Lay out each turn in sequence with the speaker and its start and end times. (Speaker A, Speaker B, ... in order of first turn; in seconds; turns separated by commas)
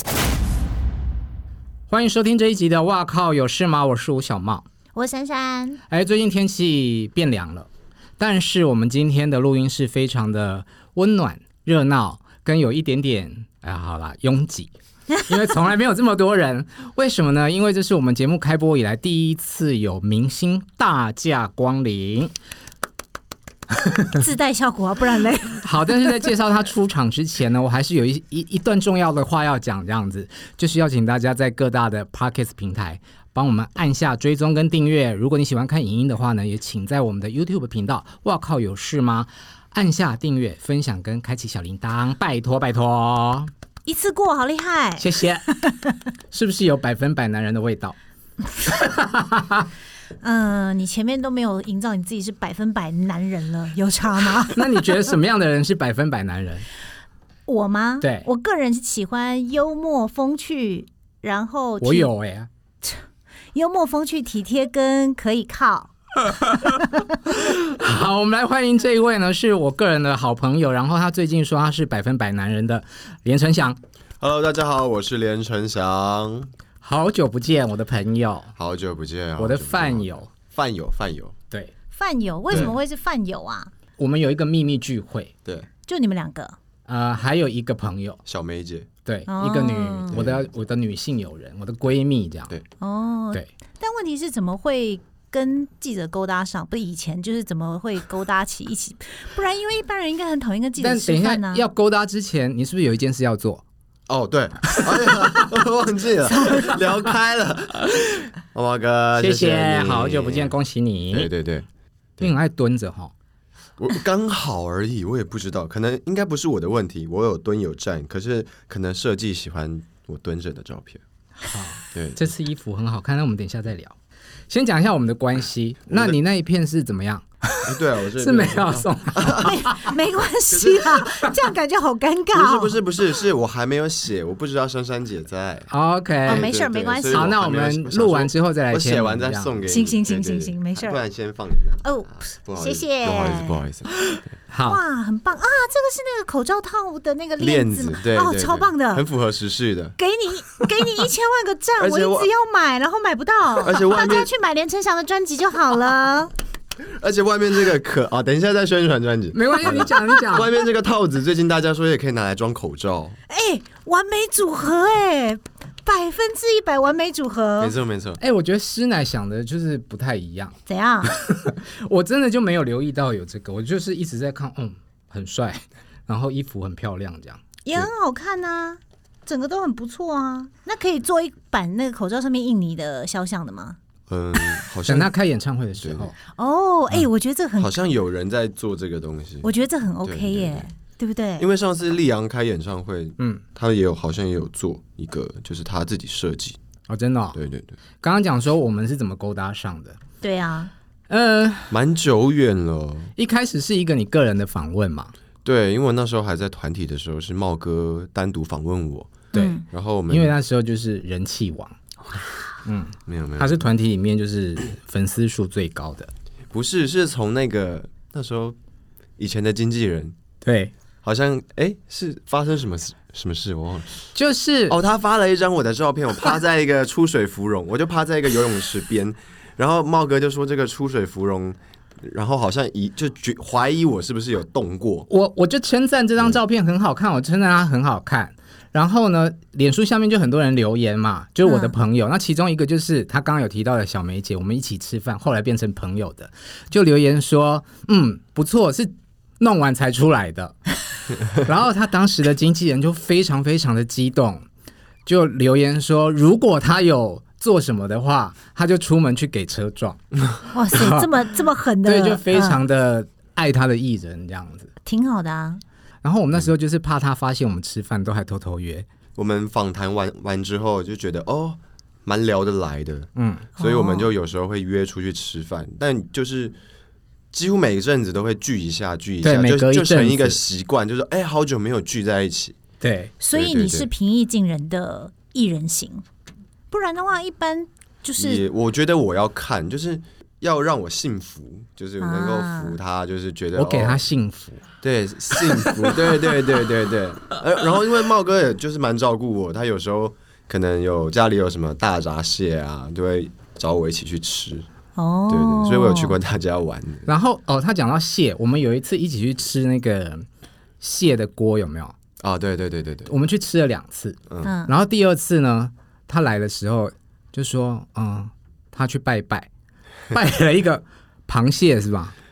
Speaker A: 1.9-4.7, Speaker B: 5.0-5.8, Speaker A: 5.9-7.7, Speaker A: 8.2-14.7, Speaker A: 15.2-22.3, Speaker A: 23.8-24.2, Speaker B: 24.1-26.1, Speaker A: 25.6-43.5, Speaker B: 43.9-45.7, Speaker A: 45.0-45.6, Speaker A: 46.3-48.0, Speaker A: 48.7-49.7, Speaker B: 50.2-54.9, Speaker A: 54.5-56.7, Speaker B: 57.5-62.1, Speaker A: 58.0-58.3, Speaker A: 61.8-62.5, Speaker B: 62.8-65.9, Speaker A: 66.3-73.8, Speaker B: 66.6-67.0, Speaker C: 74.2-76.5, Speaker A: 76.8-78.5, Speaker C: 78.6-81.4, Speaker A: 79.4-80.3, Speaker B: 82.0-83.7, Speaker C: 82.5-82.8, Speaker A: 84.0-85.3, Speaker B: 85.9-86.6, Speaker A: 86.9-88.2, Speaker C: 88.3-88.9, Speaker A: 89.0-92.5, Speaker B: 89.3-90.2, Speaker C: 90.1-90.5, Speaker B: 92.8-101.7, Speaker A: 100.8-103.6, Speaker C: 104.1-110.5, Speaker A: 109.2-111.3, Speaker C: 111.1-112.3, Speaker A: 112.2-113.1, Speaker C: 113.8-121.0, Speaker A: 121.4-124.0, Speaker C: 121.9-122.3, Speaker A: 124.5-129.5, Speaker C: 125.9-126.2, Speaker C: 127.7-129.7, Speaker B: 129.4-132.8, Speaker C: 130.5-131.1, Speaker C: 132.3-135.7, Speaker A: 135.7-136.5, Speaker C: 136.2-143.9, Speaker B: 136.3-137.3, Speaker A: 137.1-139.6, Speaker B: 139.7-141.0, Speaker B: 141.8-143.6, Speaker A: 144.5-144.8, Speaker B: 144.7-149.1, Speaker C: 147.4-149.9, Speaker B: 150.0-156.3, Speaker C: 151.8-152.3, Speaker C: 153.6-154.3, Speaker C: 156.8-163.2, Speaker A: 159.3-160.5, Speaker B: 163.3-167.8, Speaker C: 167.6-168.2, Speaker A: 168.2-170.6, Speaker B: 170.7-171.1, Speaker A: 171.1-177.4, Speaker B: 177.7-183.8, Speaker C: 184.1-185.1, Speaker A: 184.9-186.2, Speaker C: 185.8-186.1, Speaker B: 186.3-187.7, Speaker C: 187.6-189.5, Speaker B: 189.4-191.5, Speaker C: 190.0-190.7, Speaker C: 191.4-196.6, Speaker A: 196.9-197.4, Speaker C: 197.3-197.8, Speaker A: 198.0-200.0, Speaker B: 200.2-200.7, Speaker A: 201.1-201.7, Speaker C: 201.7-203.1, Speaker A: 203.2-205.1, Speaker C: 205.4-210.3, Speaker B: 209.3-209.6, Speaker A: 210.1-211.8, Speaker A: 212.6-216.1, Speaker C: 213.1-213.6, Speaker C: 216.5-218.6, Speaker C: 219.2-220.2, Speaker A: 220.4-220.7, Speaker C: 221.0-224.1, Speaker A: 224.2-224.8, Speaker C: 224.7-235.1, Speaker A: 235.1-250.6, Speaker B: 241.4-241.8, Speaker A: 251.2-254.5, Speaker A: 255.1-260.0, Speaker B: 260.5-262.6, Speaker A: 260.7-261.1, Speaker A: 261.9-264.7, Speaker B: 264.9-265.6, Speaker A: 266.0-268.9, Speaker C: 269.2-276.6, Speaker A: 273.2-273.5, Speaker B: 273.6-274.1, Speaker C: 277.3-282.6, Speaker A: 279.2-280.4, Speaker A: 282.8-283.1, Speaker B: 283.2-286.0, Speaker C: 283.3-283.9, Speaker B: 286.7-288.4, Speaker C: 288.2-294.0, Speaker B: 292.0-292.8, Speaker A: 293.6-294.6, Speaker C: 294.8-304.7, Speaker B: 305.0-306.2, Speaker C: 305.3-307.1, Speaker A: 307.1-310.3, Speaker A: 310.8-311.9, Speaker C: 312.2-313.1, Speaker A: 313.1-319.5, Speaker B: 314.4-314.7, Speaker A: 320.1-322.1